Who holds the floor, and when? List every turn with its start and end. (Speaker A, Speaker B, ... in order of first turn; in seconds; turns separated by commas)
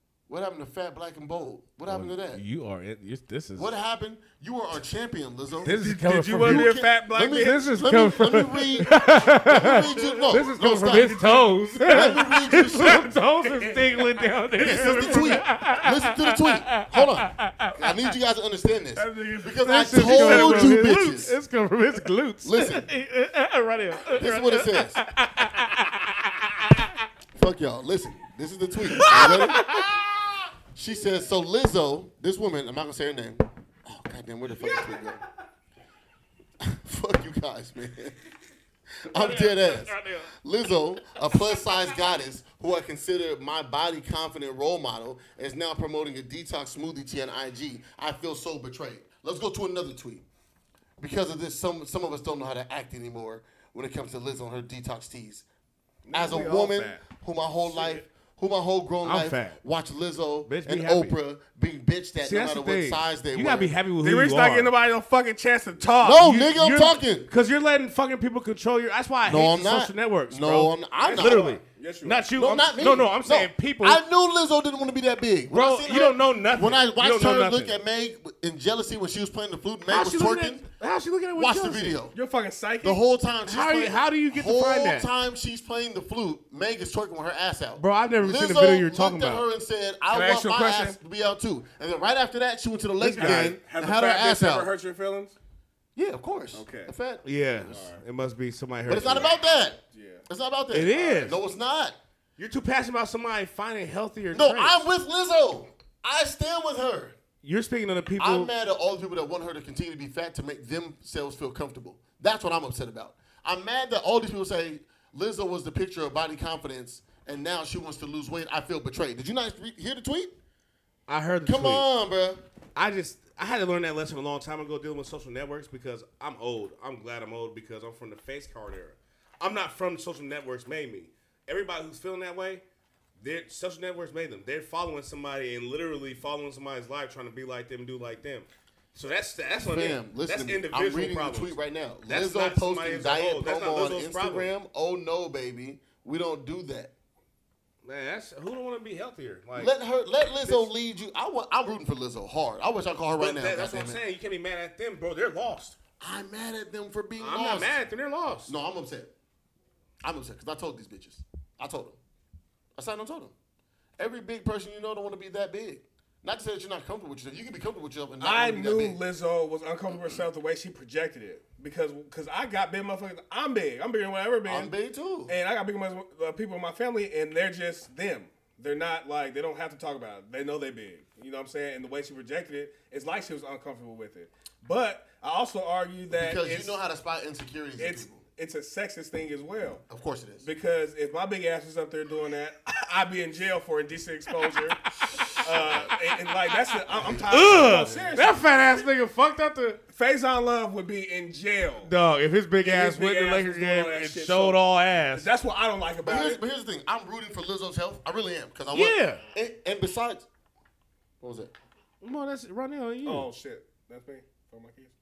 Speaker A: 0.3-2.4, Speaker B: 1.9-3.7, Speaker A: 3.5-5.8, Speaker B: 5.6-6.7, Speaker C: 5.6-7.9, Speaker A: 6.3-11.2, Speaker B: 7.3-17.9, Speaker C: 8.9-15.5, Speaker A: 11.8-13.1, Speaker A: 14.6-21.4, Speaker C: 18.9-20.9, Speaker B: 19.6-26.9, Speaker A: 22.4-22.9, Speaker A: 24.1-25.0, Speaker A: 27.3-35.2, Speaker B: 28.9-30.0, Speaker A: 36.6-38.2, Speaker A: 39.0-50.2, Speaker B: 39.1-40.3, Speaker A: 51.0-55.4, Speaker C: 56.0-57.0, Speaker A: 56.1-63.7, Speaker C: 57.7-58.0, Speaker B: 59.0-59.6, Speaker B: 60.4-61.2, Speaker B: 62.2-64.7, Speaker C: 64.0-66.3, Speaker A: 66.0-67.3, Speaker B: 66.2-74.0, Speaker A: 69.2-71.6, Speaker C: 71.0-72.3, Speaker A: 72.3-80.7, Speaker B: 75.5-77.7, Speaker B: 79.9-82.0, Speaker A: 81.3-82.2, Speaker C: 82.1-83.0, Speaker A: 82.8-94.7, Speaker B: 83.4-85.1, Speaker B: 87.8-89.5, Speaker C: 90.1-91.0, Speaker B: 93.0-93.6, Speaker C: 93.0-95.3, Speaker A: 96.0-97.8, Speaker C: 96.5-96.9, Speaker B: 97.2-99.3, Speaker C: 97.7-98.0, Speaker A: 98.9-102.0, Speaker C: 99.9-100.2, Speaker B: 100.7-101.4, Speaker C: 100.9-101.3, Speaker B: 102.4-104.9, Speaker A: 104.3-107.2, Speaker B: 107.4-108.5, Speaker A: 108.2-120.3, Speaker B: 121.1-121.8, Speaker A: 121.4-122.4, Speaker B: 122.7-132.6, Speaker B: 133.2-144.5, Speaker A: 139.6-146.9, Speaker B: 147.8-149.7, Speaker A: 149.6-154.0, Speaker B: 150.4-150.7, Speaker B: 153.2-155.8, Speaker A: 156.0-157.8, Speaker B: 157.2-158.5, Speaker A: 158.5-159.1, Speaker A: 160.0-162.0, Speaker A: 162.8-163.3, Speaker A: 164.0-169.0, Speaker C: 168.2-174.7, Speaker A: 174.4-175.3, Speaker C: 175.3-186.8, Speaker A: 186.1-188.2, Speaker C: 187.8-189.8, Speaker A: 189.9-190.5, Speaker C: 190.4-198.4, Speaker B: 195.1-195.3, Speaker A: 195.1-195.9, Speaker A: 196.9-198.3, Speaker B: 197.3-199.8, Speaker C: 199.9-201.9, Speaker B: 201.8-205.3, Speaker C: 202.6-206.4, Speaker A: 206.0-210.3, Speaker B: 208.7-209.2, Speaker A: 211.2-211.5, Speaker B: 212.0-213.3, Speaker C: 213.0-214.9